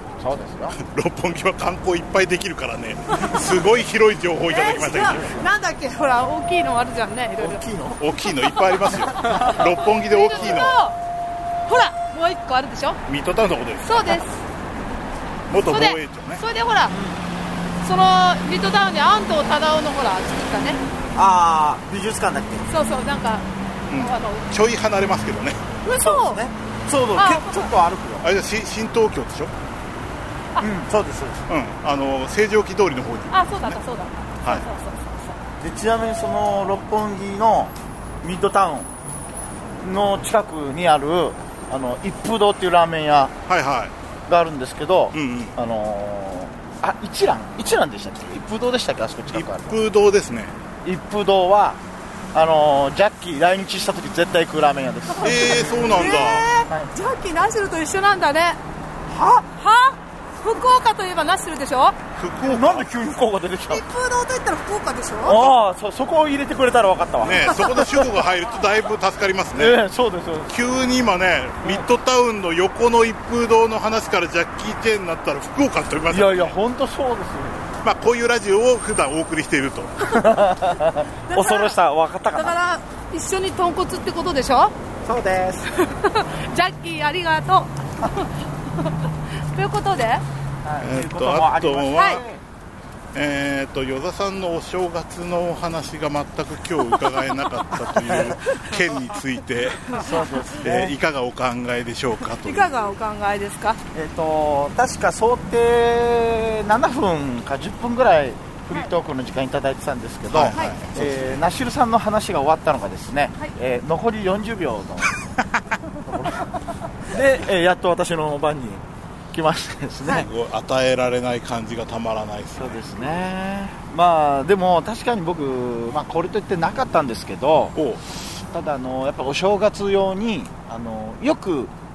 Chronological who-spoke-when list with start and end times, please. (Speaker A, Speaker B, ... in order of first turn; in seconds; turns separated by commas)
Speaker A: 0.2-0.8, Speaker B: 0.8-5.3, Speaker C: 4.5-7.6, Speaker A: 5.2-5.4, Speaker A: 7.4-8.0, Speaker B: 8.0-10.8, Speaker C: 8.9-11.0, Speaker C: 11.7-13.0, Speaker B: 13.1-14.2, Speaker C: 13.8-14.4, Speaker B: 15.5-16.4, Speaker C: 15.7-16.9, Speaker A: 16.9-17.2, Speaker C: 17.8-20.8, Speaker A: 21.1-22.7, Speaker C: 22.7-24.5, Speaker B: 23.9-25.6, Speaker C: 25.8-26.4, Speaker A: 25.9-28.3, Speaker C: 27.1-27.7, Speaker B: 28.2-29.5, Speaker A: 30.6-31.4, Speaker B: 31.5-33.8, Speaker C: 33.3-35.4, Speaker A: 35.6-38.9, Speaker A: 39.8-43.4, Speaker B: 43.5-43.9, Speaker A: 44.3-49.8, Speaker B: 45.1-45.5, Speaker B: 49.3-50.6, Speaker A: 50.8-51.8, Speaker A: 52.3-56.9, Speaker B: 55.2-56.5, Speaker C: 55.9-58.6, Speaker A: 59.1-59.5, Speaker C: 59.5-62.0, Speaker B: 62.1-62.9, Speaker A: 62.4-63.8, Speaker C: 63.7-65.5, Speaker A: 65.2-68.2, Speaker B: 67.2-69.8, Speaker A: 69.5-70.5, Speaker B: 70.5-76.5, Speaker A: 76.1-77.7, Speaker B: 77.8-80.1, Speaker A: 80.0-82.5, Speaker C: 81.3-81.8, Speaker C: 82.3-84.8, Speaker A: 85.0-85.7, Speaker C: 85.7-90.2, Speaker A: 90.6-92.4, Speaker B: 90.8-92.2, Speaker C: 91.9-92.2, Speaker B: 93.1-100.0, Speaker A: 97.9-98.4, Speaker A: 99.9-101.0, Speaker B: 100.6-102.8, Speaker C: 102.4-103.8, Speaker A: 103.9-115.2, Speaker B: 110.3-111.4, Speaker C: 110.5-110.8, Speaker A: 116.0-116.5, Speaker A: 117.1-120.3, Speaker B: 120.0-122.8, Speaker A: 122.6-127.8, Speaker B: 127.7-128.0, Speaker A: 128.3-131.7